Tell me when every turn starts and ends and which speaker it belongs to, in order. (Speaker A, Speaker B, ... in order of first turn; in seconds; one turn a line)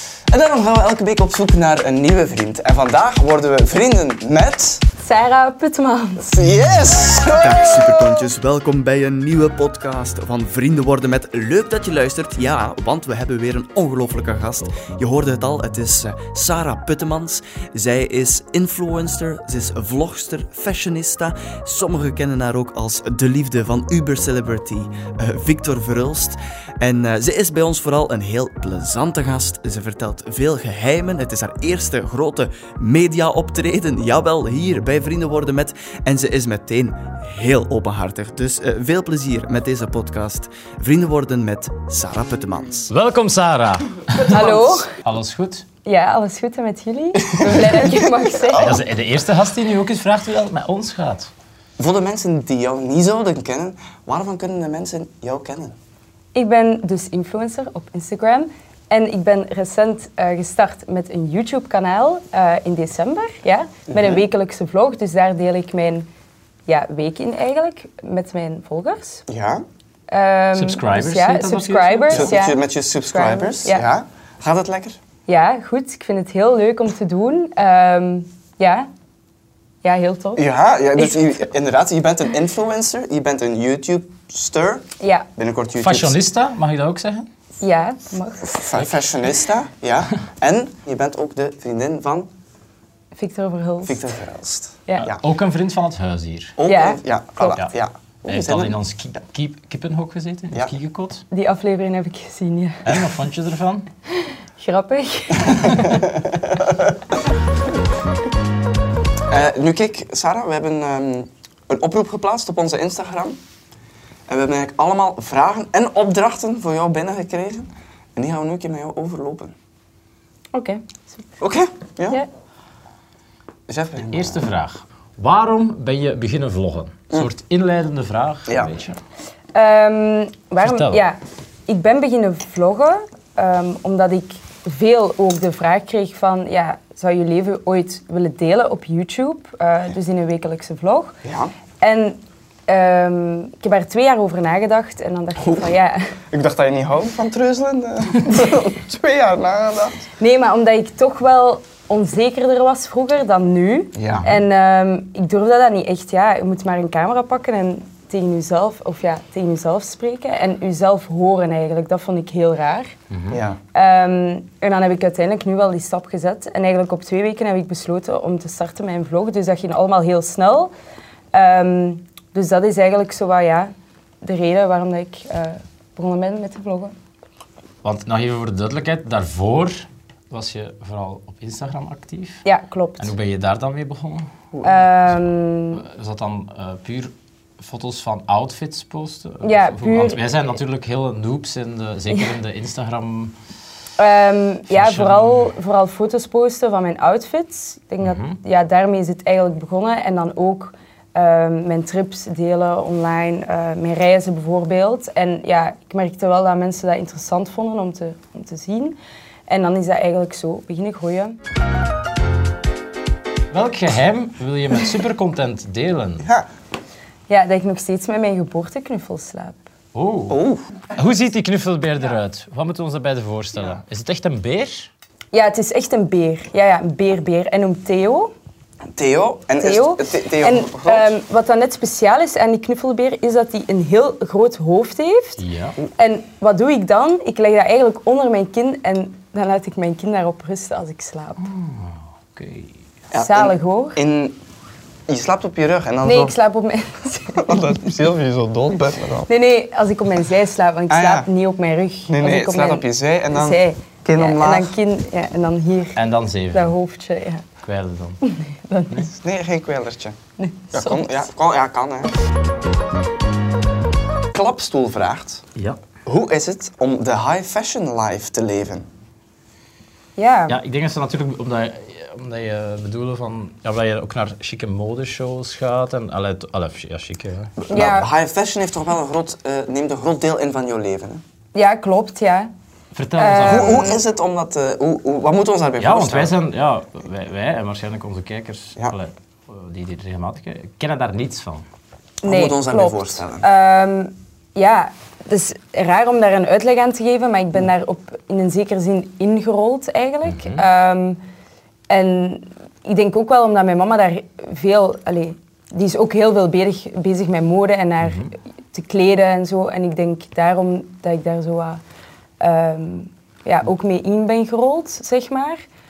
Speaker A: 0.3-4.8
Speaker B: 5.0-6.3
Speaker A: 6.2-8.3
Speaker C: 7.3-42.9
Speaker D: 42.9-45.6
Speaker A: 44.2-44.8
Speaker B: 44.2-44.9
Speaker B: 45.8-48.8
Speaker A: 47.4-48.0
Speaker D: 48.5-51.3
Speaker A: 51.8-55.7
Speaker B: 56.3-66.1
Speaker A: 63.9-64.2
Speaker B: 66.7-69.2
Speaker A: 69.3-69.6
Speaker B: 70.1-73.9
Speaker D: 70.5-72.3
Speaker A: 72.1-75.0
Speaker B: 75.3-78.9
Speaker B: 79.8-80.4
Speaker A: 80.3-86.2
Speaker B: 85.0-85.3
Speaker D: 85.8-87.3
Speaker B: 87.6-88.6
Speaker A: 88.4-92.3
Speaker D: 88.8-89.0
Speaker B: 93.1-94.0
Speaker A: 93.8-95.2
Speaker D: 95.0-96.5
Speaker A: 96.6-98.7
Speaker B: 96.6-97.5
Speaker D: 98.3-101.2
Speaker B: 101.3-102.8
Speaker D: 102.8-103.9
Speaker B: 104.1-106.0
Speaker A: 105.5-106.8
Speaker A: 109.3-113.4
Speaker A: 114.3-119.5
Speaker B: 120.5-121.0
Speaker A: 121.4-122.2
Speaker A: 123.7-124.4
Speaker D: 124.1-129.0
Speaker A: 128.5-128.7
Speaker B: 129.5-141.2
Speaker D: 130.6-131.0
Speaker A: 141.2-141.5
Speaker B: 141.8-146.1
Speaker A: 146.3-150.0
Speaker B: 150.2-162.9
Speaker A: 153.9-154.3
Speaker D: 163.1-163.4
Speaker A: 163.3-163.6
Speaker B: 163.7-170.7
Speaker B: 171.3-176.9
Speaker D: 177.8-182.4
Speaker B: 182.4-183.1
Speaker D: 183.0-184.3
Speaker B: 184.6-185.8
Speaker D: 185.7-193.3
Speaker B: 189.4-190.3
Speaker B: 194.0-211.4
Speaker D: 194.7-195.5
Speaker D: 198.0-198.4
Speaker D: 213.5-216.2
Speaker A: 216.2-216.5
Speaker B: 217.3-219.6
Speaker D: 219.9-220.4
Speaker A: 220.3-220.6
Speaker D: 220.9-224.9
Speaker B: 225.3-228.3
Speaker A: 228.9-231.1
Speaker B: 229.6-235.4
Speaker D: 235.4-235.8
Speaker B: 235.9-241.5
Speaker D: 241.4-242.7
Speaker A: 243.1-244.4
Speaker B: 243.1-244.0
Speaker A: 245.1-246.3
Speaker B: 246.0-247.9
Speaker A: 247.3-249.3
Speaker B: 249.3-257.4
Speaker A: 250.9-251.3
Speaker A: 252.1-254.7
Speaker D: 255.9-256.7
Speaker D: 257.6-258.2
Speaker B: 258.2-259.1
Speaker A: 259.1-260.2
Speaker B: 260.4-261.2
Speaker A: 260.7-262.1
Speaker A: 264.3-265.4
Speaker A: 266.0-268.9
Speaker B: 270.2-270.6
Speaker D: 270.5-277.5
Speaker A: 277.6-281.2
Speaker B: 277.7-278.1
Speaker B: 281.5-282.5
Speaker D: 282.9-283.9
Speaker B: 283.1-284.0
Speaker A: 283.4-286.3
Speaker D: 285.8-291.6
Speaker B: 292.2-301.2
Speaker A: 292.2-293.4
Speaker D: 300.2-300.6
Speaker B: 301.9-311.8
Speaker D: 308.0-308.3
Speaker B: 312.4-315.6